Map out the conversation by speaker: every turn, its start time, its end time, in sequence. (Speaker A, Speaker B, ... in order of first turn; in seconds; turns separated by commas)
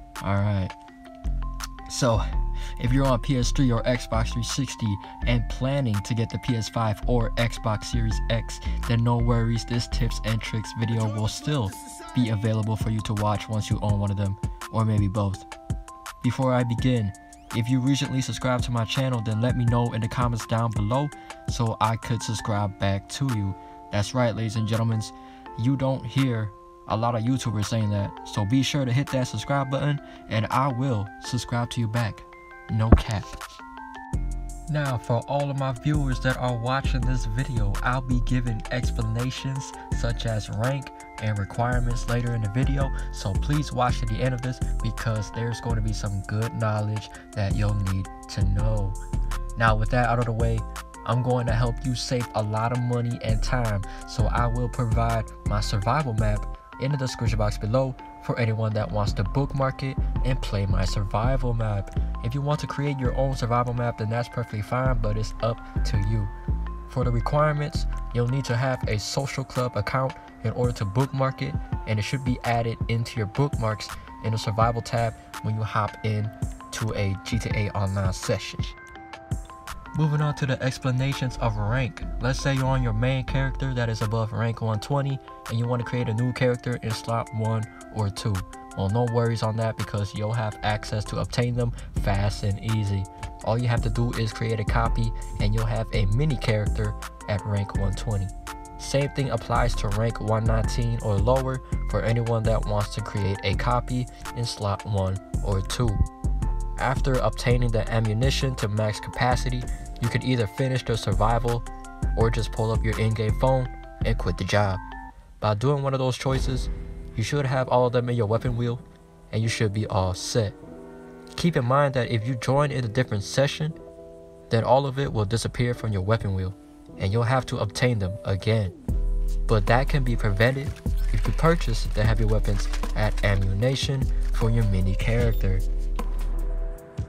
Speaker A: 0.2-0.7, Speaker A: 1.9-2.2, Speaker A: 2.8-15.5, Speaker A: 16.2-33.4, Speaker A: 34.7-49.0, Speaker A: 49.5-66.3, Speaker A: 66.9-78.8, Speaker A: 79.9-106.0, Speaker A: 106.8-114.8, Speaker A: 115.4-120.6, Speaker A: 121.3-123.8, Speaker A: 124.5-128.7, Speaker A: 129.5-135.6